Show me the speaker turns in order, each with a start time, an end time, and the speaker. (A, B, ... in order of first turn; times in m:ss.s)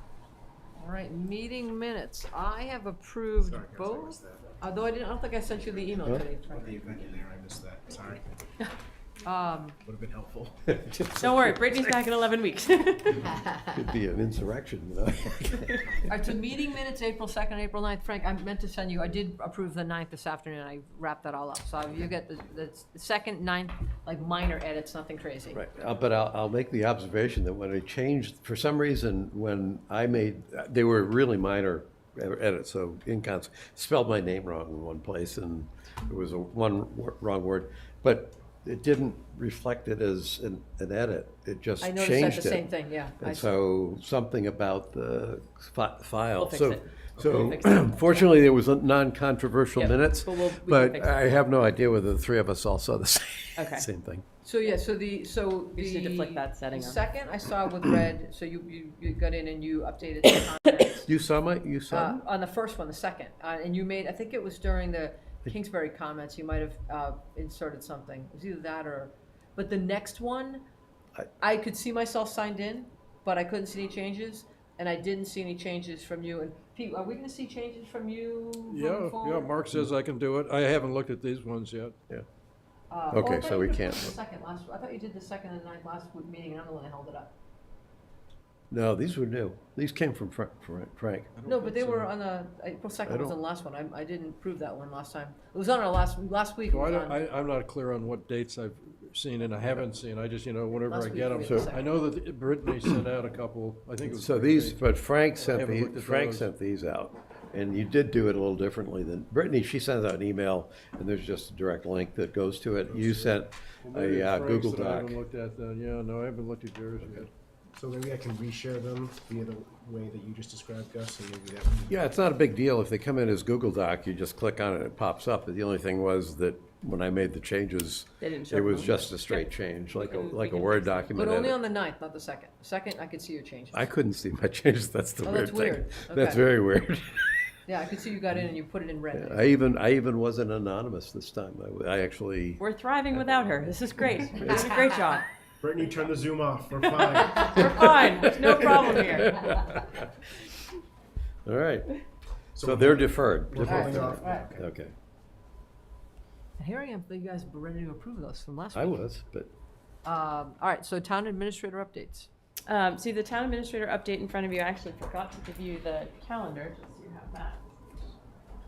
0:00.8-0:06.8 A
0:03.4-0:04.5 B
0:06.5-0:08.4 B
0:09.2-0:09.8 A
0:09.8-0:10.6 B
0:10.7-0:11.5 C
0:11.2-0:13.3 D
0:13.7-0:15.9 C
0:16.1-0:25.6 A
0:25.5-0:54.2 C
0:41.8-0:43.5 A
0:46.4-0:48.3 D
0:49.8-0:51.3 D
0:53.6-0:53.8 D
0:54.4-1:01.1 A
0:55.8-0:57.0 D
1:01.0-1:02.2 C
1:01.9-1:10.6 A
1:11.4-1:19.5 A
1:18.7-1:21.9 E
1:22.9-1:27.3 A
1:23.1-1:24.2 C
1:28.7-1:31.3 C
1:31.4-1:32.1 E
1:31.4-1:37.2 A
1:33.1-1:33.4 C
1:36.7-1:44.8 E
1:40.7-1:42.0 A
1:44.0-1:55.2 C
1:45.4-1:46.5 E
1:52.9-1:53.4 B
1:53.8-1:57.3 E
1:57.7-2:02.0 B
2:01.9-2:11.6 C
2:08.2-2:11.1 D
2:11.1-2:13.8 A
2:13.7-2:17.5 C
2:15.2-2:16.5 A
2:17.6-2:19.5 A
2:19.1-2:22.6 C
2:22.6-2:25.3 D
2:24.4-2:24.6 C
2:25.6-2:27.9 B
2:26.9-2:29.5 D
2:28.4-2:30.1 C
2:31.4-2:32.0 C
2:32.6-2:34.7 B
2:32.6-2:34.9 C
2:33.6-2:34.5 A
2:36.6-2:39.0 A
2:38.7-2:39.5 C
2:40.0-2:42.3 A
2:42.7-2:47.6 D